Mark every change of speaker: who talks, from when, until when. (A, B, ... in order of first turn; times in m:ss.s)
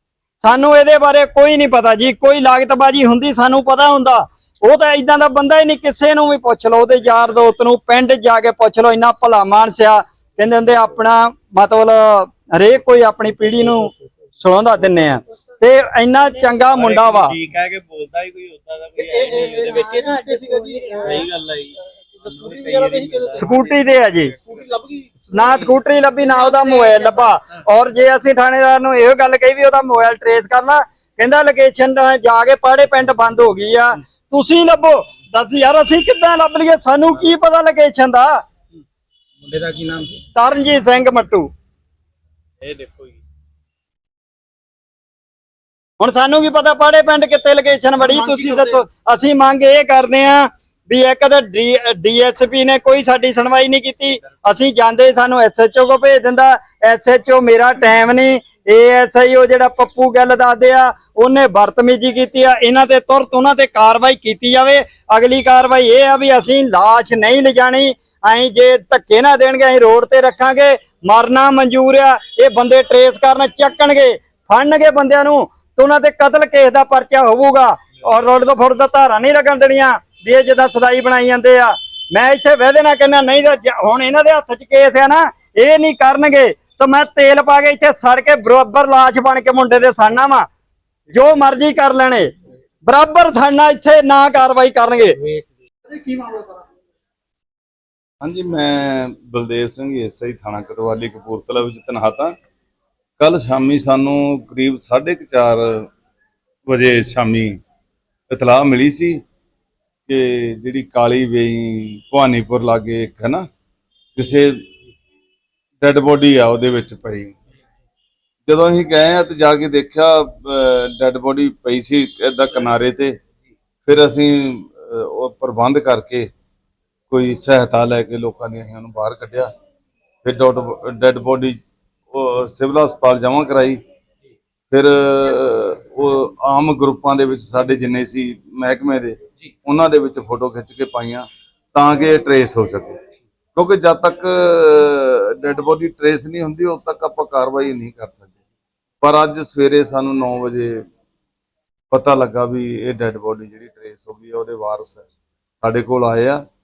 0:00.4-0:17.4 A
0:16.7-0:21.7 B
0:19.0-0:21.3 C
0:22.2-0:23.5 C
0:22.2-0:24.6 B
0:23.3-0:24.4 A
0:24.4-0:25.7 C
0:25.3-0:38.4 A
0:39.4-0:40.2 C
0:40.4-0:41.5 A
0:42.6-0:42.9 B
0:46.0-1:30.4 A
0:48.0-0:48.8 C
1:31.1-1:32.3 A
1:32.9-1:35.2 A
1:35.0-1:36.6 C
1:38.2-1:42.4 D
1:43.2-1:45.9 D
1:46.7-1:47.6 D
1:48.3-1:49.2 D
1:50.1-1:53.5 D
1:54.2-1:54.6 D
1:55.8-1:57.4 D
1:58.5-2:03.2 D
2:03.8-2:06.3 D
2:07.1-2:09.5 D
2:10.2-2:11.6 D
2:12.1-2:13.8 D
2:14.7-2:23.0 D
2:23.6-2:28.3 D
2:29.0-2:30.8 D
2:31.9-2:35.1 D
2:35.6-2:36.4 D